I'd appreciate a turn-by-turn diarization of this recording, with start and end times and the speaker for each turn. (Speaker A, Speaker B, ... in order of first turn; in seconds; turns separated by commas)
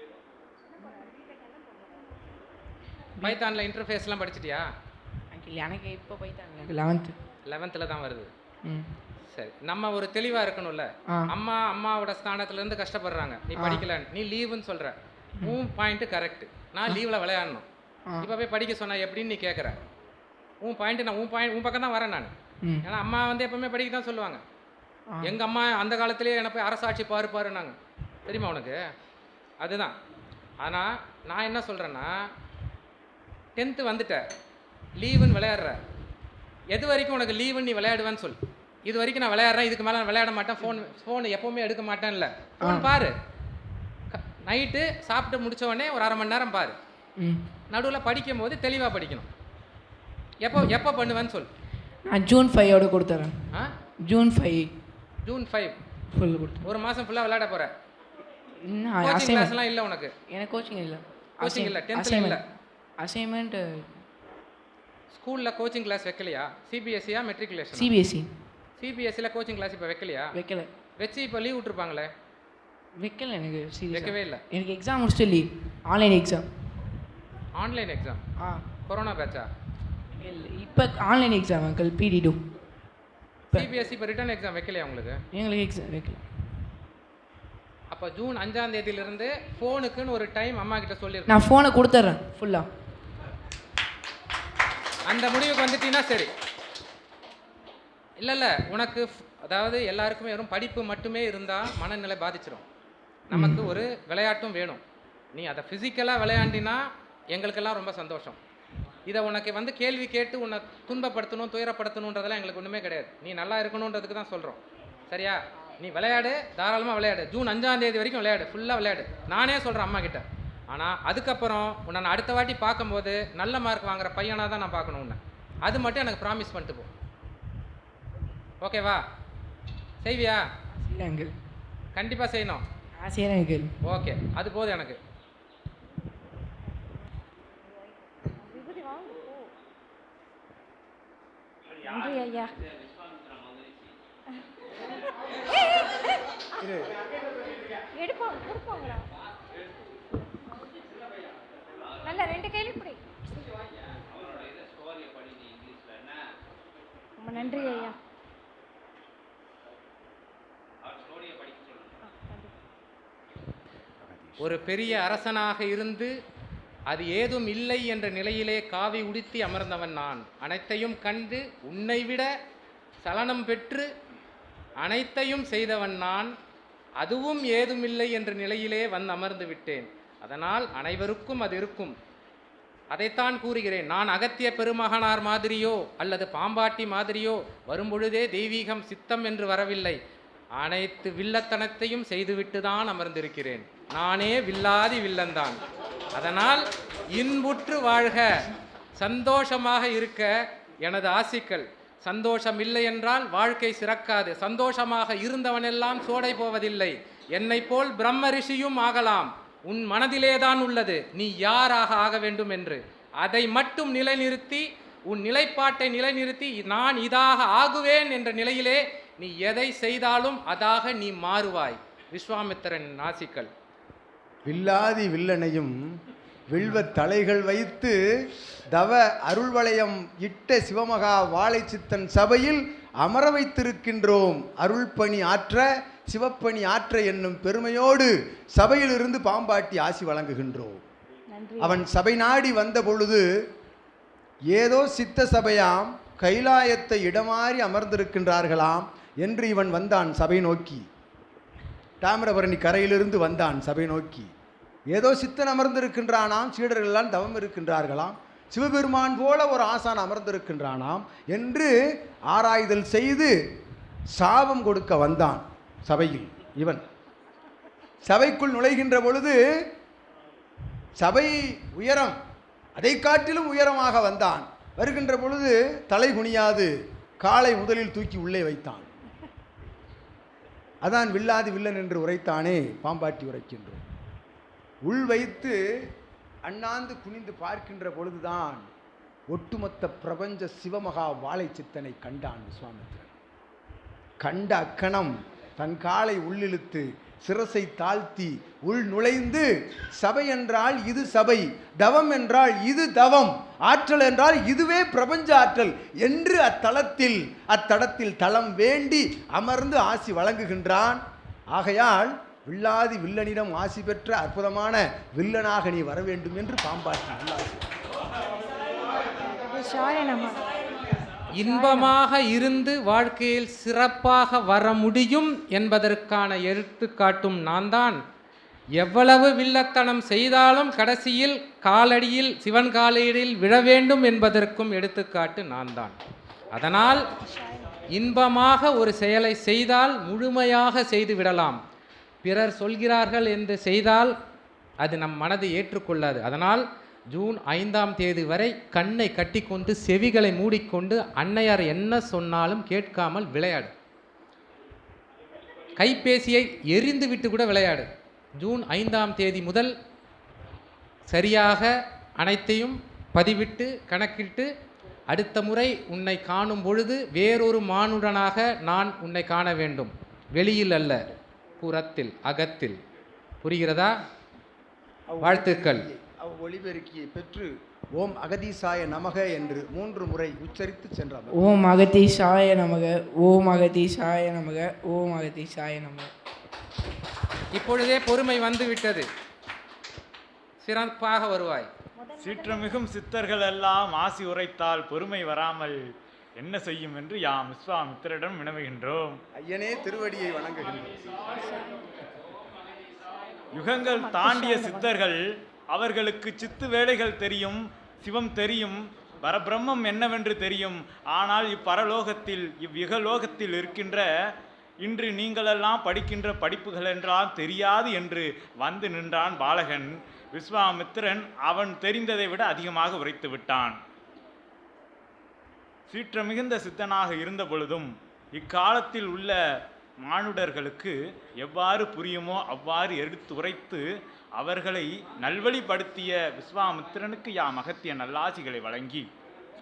Speaker A: 3.2-4.7, Speaker B: 5.3-7.2, Speaker A: 7.5-8.3, Speaker B: 8.6-9.0, Speaker A: 9.3-17.6, Speaker B: 13.6-13.8, Speaker A: 18.2-19.8, Speaker A: 20.6-24.4, Speaker B: 22.6-22.9, Speaker B: 25.1-25.3, Speaker A: 25.2-27.7, Speaker A: 28.2-28.8, Speaker A: 29.6-29.9, Speaker A: 30.6-32.2, Speaker A: 33.5-34.2, Speaker A: 35.0-35.8, Speaker A: 36.7-43.1, Speaker B: 42.6-42.9, Speaker A: 44.1-46.8, Speaker B: 47.2-47.5, Speaker A: 47.7-49.3, Speaker A: 50.4-51.5, Speaker B: 52.0-54.8, Speaker A: 55.2-55.7, Speaker B: 56.1-56.6, Speaker A: 56.6-57.7, Speaker B: 58.6-59.5, Speaker A: 59.0-60.1, Speaker B: 60.3-62.4, Speaker A: 61.4-62.4, Speaker B: 63.0-64.0, Speaker A: 65.1-67.9, Speaker B: 67.7-68.4, Speaker A: 68.8-70.3, Speaker B: 70.3-70.7, Speaker A: 71.0-72.1, Speaker B: 72.9-76.5, Speaker A: 73.9-74.4, Speaker A: 77.5-78.2, Speaker B: 78.4-78.7, Speaker A: 78.9-79.5, Speaker B: 80.2-82.5, Speaker A: 83.5-85.2, Speaker B: 85.3-86.2, Speaker A: 87.9-91.3, Speaker B: 91.3-92.7, Speaker A: 95.1-96.3, Speaker A: 98.2-102.6, Speaker A: 103.3-104.8, Speaker B: 103.3-103.7, Speaker A: 105.3-108.4, Speaker A: 109.1-126.9, Speaker A: 128.6-129.0, Speaker A: 130.0-130.4, Speaker B: 130.8-131.3, Speaker A: 131.9-132.6, Speaker B: 133.0-133.7, Speaker A: 133.8-135.0, Speaker C: 138.2-139.5, Speaker C: 141.8-142.5, Speaker C: 145.6-146.1, Speaker D: 146.6-146.9, Speaker C: 147.9-149.1, Speaker C: 152.0-153.2, Speaker C: 157.2-157.9, Speaker C: 162.0-162.5, Speaker D: 164.0-164.4, Speaker A: 164.4-166.1, Speaker A: 166.9-172.3, Speaker A: 173.0-173.9, Speaker A: 174.8-176.3, Speaker A: 177.0-181.9, Speaker A: 182.9-190.0, Speaker A: 190.6-195.6, Speaker A: 196.1-223.5, Speaker D: 224.4-225.8, Speaker D: 226.5-227.9, Speaker D: 228.7-240.8, Speaker C: 241.3-241.8, Speaker D: 241.6-243.2, Speaker D: 244.5-250.8, Speaker D: 252.0-254.3, Speaker D: 254.9-261.7, Speaker D: 262.3-263.3, Speaker D: 264.1-266.8, Speaker D: 268.0-269.4, Speaker D: 271.0-272.1, Speaker D: 272.8-278.9, Speaker D: 280.8-283.8, Speaker D: 284.8-285.6, Speaker D: 286.4-288.6, Speaker D: 289.3-293.1, Speaker D: 294.2-299.4, Speaker D: 300.0-311.0, Speaker D: 311.5-317.6, Speaker C: 319.2-320.6, Speaker A: 321.3-328.0, Speaker C: 321.4-321.9, Speaker A: 328.8-335.9, Speaker A: 336.5-337.0, Speaker C: 337.2-337.8, Speaker A: 337.9-341.6, Speaker A: 342.2-344.1, Speaker A: 344.8-353.7, Speaker A: 355.8-357.9, Speaker A: 358.4-359.7, Speaker A: 361.1-364.5, Speaker A: 365.1-372.8, Speaker A: 373.4-373.9, Speaker D: 375.1-381.5, Speaker A: 375.2-375.9, Speaker B: 381.3-386.1, Speaker A: 387.5-389.1, Speaker A: 390.6-391.7, Speaker C: 392.0-392.8, Speaker E: 392.2-395.8, Speaker E: 396.4-399.2, Speaker D: 399.3-401.4, Speaker C: 401.4-401.9, Speaker E: 403.5-405.2, Speaker C: 403.8-404.9, Speaker E: 405.7-414.0, Speaker E: 414.8-423.8, Speaker E: 425.9-429.3, Speaker E: 430.0-433.8, Speaker E: 434.4-439.1